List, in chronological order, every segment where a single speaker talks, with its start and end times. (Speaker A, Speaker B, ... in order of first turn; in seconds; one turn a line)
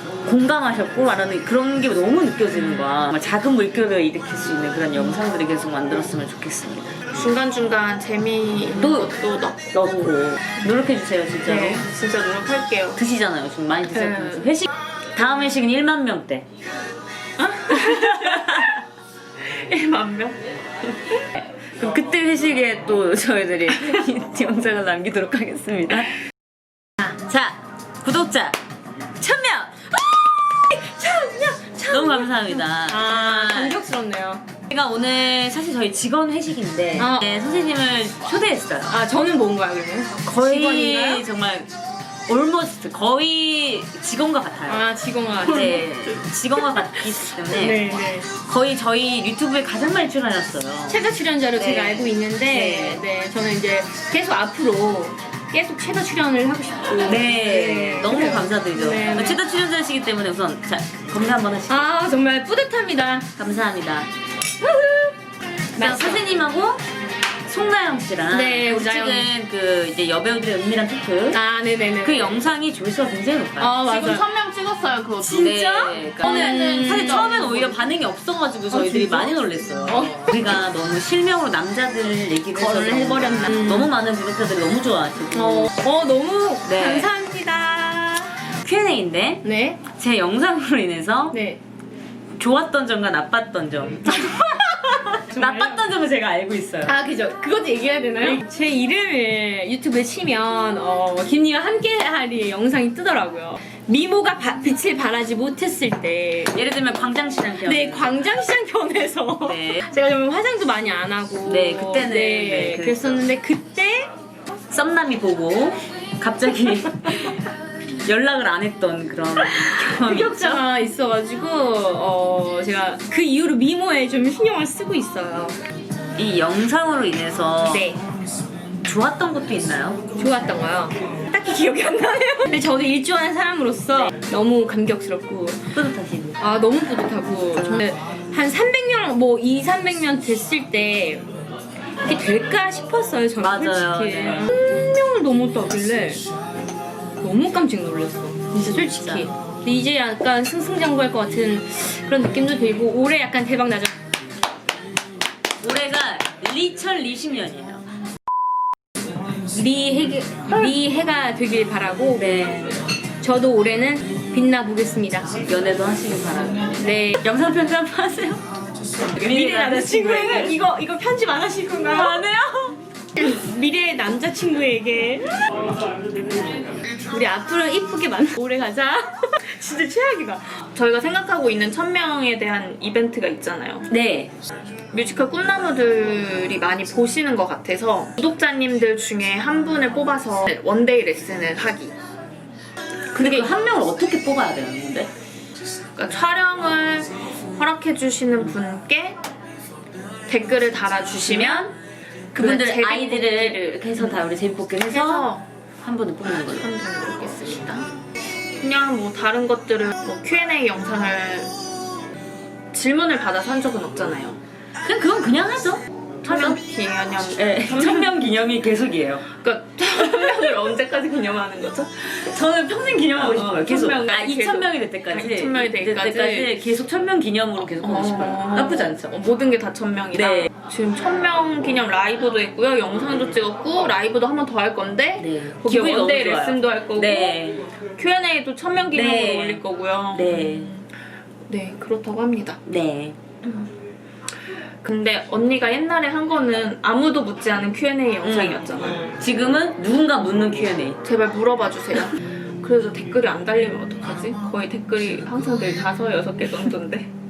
Speaker A: 0.2-7.0
Speaker B: 7.1-10.1
Speaker A: 8.8-9.2
Speaker A: 9.7-11.9
Speaker B: 11.4-13.0
Speaker A: 13.0-16.5
Speaker B: 13.9-14.5
Speaker B: 17.4-18.8
Speaker A: 17.7-18.7
Speaker B: 19.5-20.4
Speaker A: 21.4-26.1
Speaker A: 27.1-28.6
Speaker A: 29.2-29.9
Speaker C: 30.6-34.4
Speaker A: 31.9-33.8
Speaker A: 34.7-39.0
Speaker C: 37.0-37.3
Speaker C: 38.9-41.2
Speaker A: 40.2-41.7
Speaker A: 42.3-44.9
Speaker C: 44.7-45.9
Speaker A: 45.4-51.0
Speaker C: 47.5-48.3
Speaker C: 50.9-59.4
Speaker A: 51.5-53.0
Speaker A: 57.0-61.9
Speaker C: 61.7-63.3
Speaker A: 63.4-64.1
Speaker C: 64.6-65.1
Speaker C: 65.7-66.2
Speaker A: 65.8-66.8
Speaker A: 67.5-71.4
Speaker C: 68.3-69.3
Speaker C: 71.3-72.4
Speaker A: 72.0-73.8
Speaker C: 73.6-74.3
Speaker B: 73.8-77.8
Speaker C: 75.2-77.6
Speaker A: 75.4-85.7
Speaker C: 78.7-80.4
Speaker C: 82.5-83.9
Speaker C: 85.3-88.4
Speaker A: 86.7-87.1
Speaker A: 88.5-91.4
Speaker C: 89.4-89.8
Speaker C: 91.3-91.6
Speaker A: 92.4-94.3
Speaker C: 94.1-95.8
Speaker A: 95.3-97.0
Speaker C: 96.8-106.5
Speaker A: 106.5-108.3
Speaker C: 107.6-114.1
Speaker A: 109.4-109.8
Speaker A: 111.5-113.3
Speaker A: 114.7-117.4
Speaker A: 118.1-120.6
Speaker C: 119.7-125.6
Speaker A: 126.2-127.9
Speaker C: 127.7-128.0
Speaker A: 128.8-130.0
Speaker C: 130.2-135.7
Speaker A: 135.7-136.4
Speaker C: 136.4-141.2
Speaker A: 137.5-137.8
Speaker C: 142.0-146.2
Speaker A: 143.4-144.5
Speaker C: 147.2-153.9
Speaker A: 148.6-149.3
Speaker A: 155.6-157.8
Speaker C: 159.5-162.3
Speaker A: 162.2-162.8
Speaker C: 163.2-165.3
Speaker A: 165.4-168.4
Speaker C: 166.8-167.2
Speaker A: 169.1-170.6
Speaker C: 169.2-175.4
Speaker A: 171.9-172.4
Speaker C: 177.1-180.6
Speaker B: 180.7-183.9
Speaker A: 183.9-184.3
Speaker B: 184.9-191.9
Speaker A: 193.1-195.1
Speaker B: 193.2-193.5
Speaker B: 196.0-199.2
Speaker B: 200.3-201.7
Speaker A: 201.2-201.8
Speaker B: 202.3-204.2
Speaker A: 202.3-205.3
Speaker B: 204.8-205.4
Speaker A: 205.8-206.7
Speaker B: 206.5-207.9
Speaker B: 208.6-211.5
Speaker B: 212.7-214.4
Speaker A: 214.8-216.6
Speaker B: 216.2-218.2
Speaker A: 217.4-219.2
Speaker B: 219.3-222.2
Speaker A: 220.0-220.6
Speaker A: 222.2-229.1
Speaker B: 223.2-226.6
Speaker B: 227.8-237.4
Speaker A: 230.1-230.5
Speaker A: 235.2-237.7
Speaker B: 237.9-240.9
Speaker A: 238.9-240.7
Speaker B: 241.5-242.6
Speaker A: 242.7-243.2
Speaker B: 243.4-243.7
Speaker B: 244.8-249.2
Speaker A: 248.2-251.0
Speaker B: 251.0-257.1